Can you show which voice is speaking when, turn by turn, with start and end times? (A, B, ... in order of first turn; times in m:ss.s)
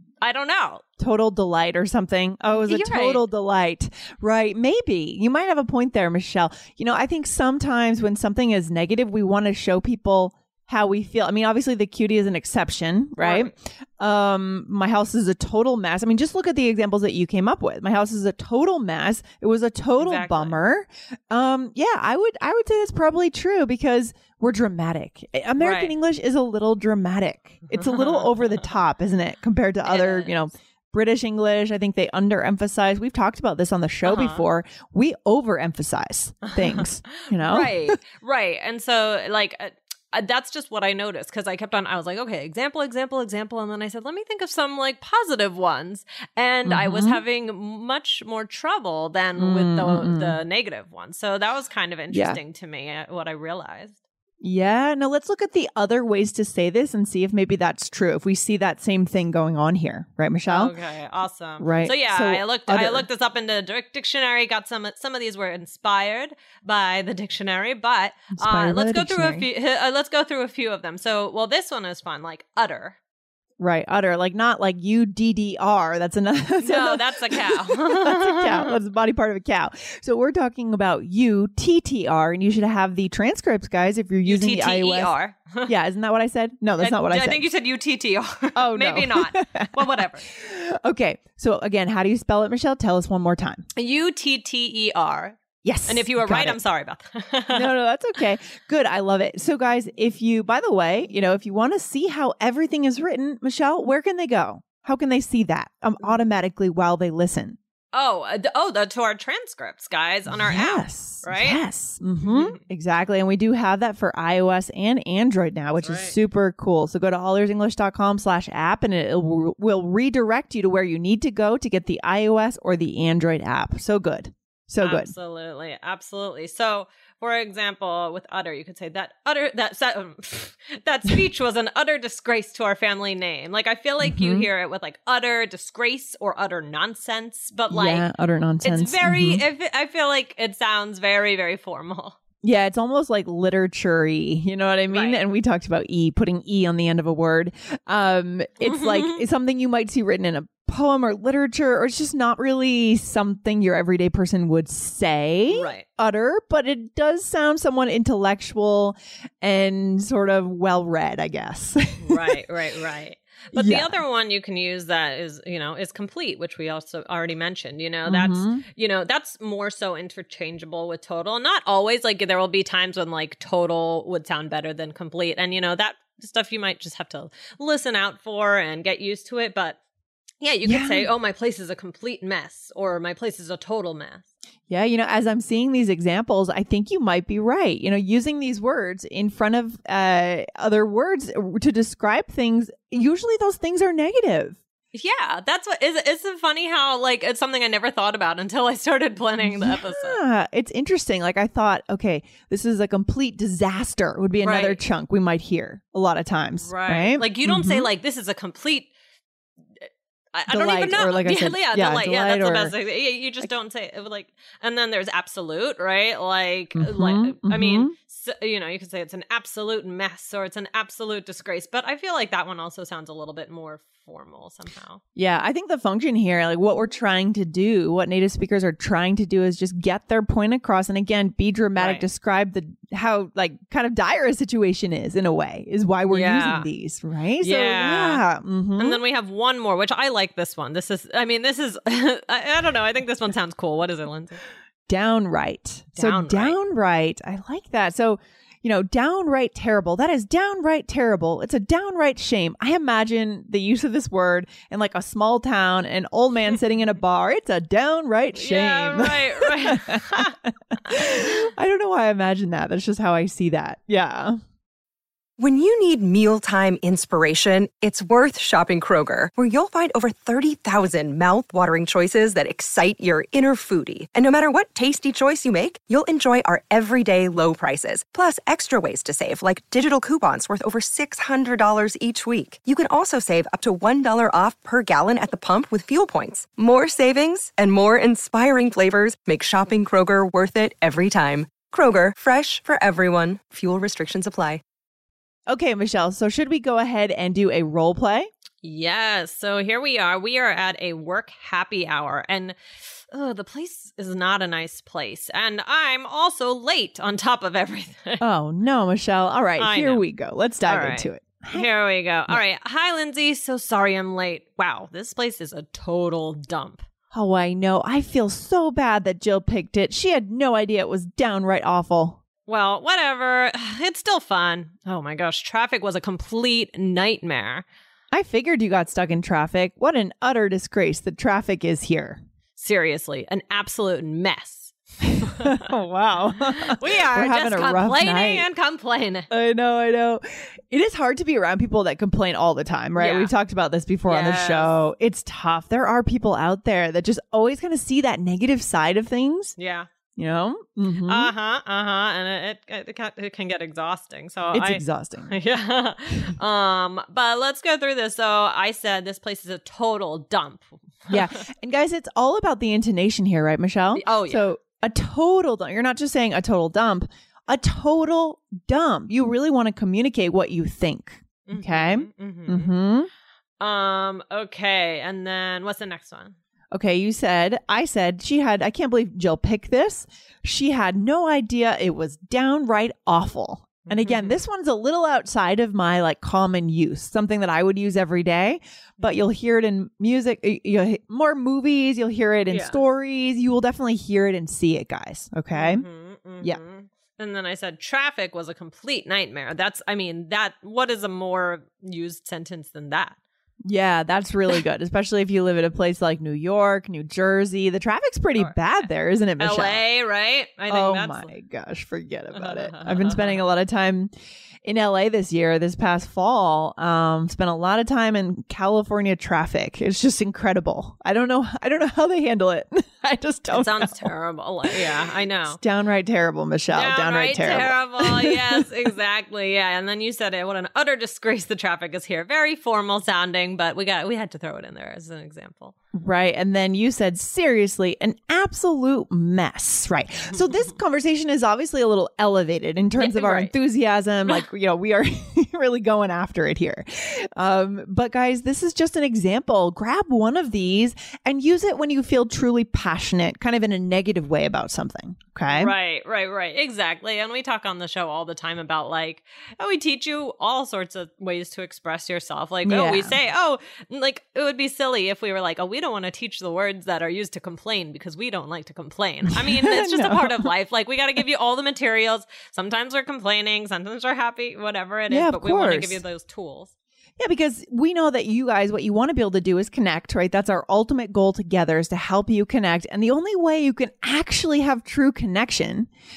0:00.2-0:00.8 A
0:01.0-0:38.0 B
0:02.5-0:03.3 A
0:13.2-0:13.5 A
0:20.0-0:20.6 A
0:25.6-0:26.0 A
0:27.7-0:28.4 A
0:29.8-0:30.4 A
0:34.0-0:34.4 A
0:36.6-0:54.0 A
0:46.6-0:47.2 B
0:49.4-0:50.4 B
0:52.1-0:52.4 B
0:54.4-1:00.7 B
1:00.5-1:13.0 A
1:01.6-1:03.1 B
1:08.4-1:09.5 B
1:13.6-1:25.1 B
1:16.6-1:18.7 A
1:24.2-1:25.7 A
1:25.7-1:27.5 B
1:26.8-1:30.3 A
1:28.6-1:33.6 B
1:33.8-1:37.7 A
1:35.6-1:36.6 B
1:37.5-1:47.6 B
1:47.9-1:51.6 A
1:50.4-2:05.1 B
1:52.2-1:52.6 A
1:55.8-1:56.2 A
2:04.8-2:18.1 A
2:14.0-2:14.5 B
2:17.7-2:19.4 B
2:18.6-2:22.2 A
2:22.4-2:42.4 B
2:24.9-2:25.3 A
2:28.6-2:29.2 A
2:35.5-2:35.8 A
2:42.0-2:59.8 A
2:43.5-2:44.0 B
2:48.1-2:48.6 B
3:00.4-3:04.3 A
3:00.6-3:01.1 B
3:04.7-3:14.6 B
3:14.9-3:20.2 A
3:19.4-3:27.9 B
3:24.4-3:24.8 A
3:26.6-3:28.9 A
3:29.8-3:45.0 A
3:30.5-3:32.7 B
3:36.8-3:37.9 B
3:45.2-3:59.0 B
3:51.8-3:52.1 A
3:56.1-3:56.7 A
3:57.4-3:58.2 A
3:58.8-4:04.4 A
4:04.9-4:24.4 B
4:05.9-4:06.6 A
4:18.4-4:21.5 A
4:25.4-4:54.6 C
4:55.5-4:58.3 B
4:58.6-5:08.2 A
5:08.2-5:11.7 B
5:09.6-5:10.0 A
5:10.6-5:16.8 A
5:17.1-5:22.2 B
5:22.5-5:27.6 A
5:28.1-5:32.2 B
5:32.6-5:35.6 A
5:35.2-5:38.5 B
5:36.5-5:39.3 A
5:39.3-5:49.6 B
5:43.0-5:43.4 A
5:44.1-5:44.8 A
5:49.6-5:49.9 A
5:50.2-5:51.3 B
5:51.0-6:01.3 A
5:54.5-5:55.4 B
6:01.1-6:13.1 B
6:04.0-6:04.5 A
6:11.5-6:12.7 A
6:13.6-6:16.4 A
6:16.7-6:35.8 B
6:23.9-6:24.4 A
6:29.0-6:29.2 A
6:32.5-6:32.8 A
6:35.5-6:43.2 A
6:43.7-6:49.8 B
6:48.4-6:48.7 A
6:49.4-6:51.3 A
6:50.7-6:54.1 B
6:52.4-6:53.4 A
6:54.6-7:04.1 B
7:03.5-7:05.6 A
7:05.5-7:08.7 B
7:06.7-7:15.7 A
7:16.0-7:35.7 B
7:23.0-7:23.5 A
7:35.5-7:56.7 A
7:42.6-7:43.2 B
7:49.3-7:50.5 B
7:55.1-7:56.0 B
7:57.2-8:05.9 B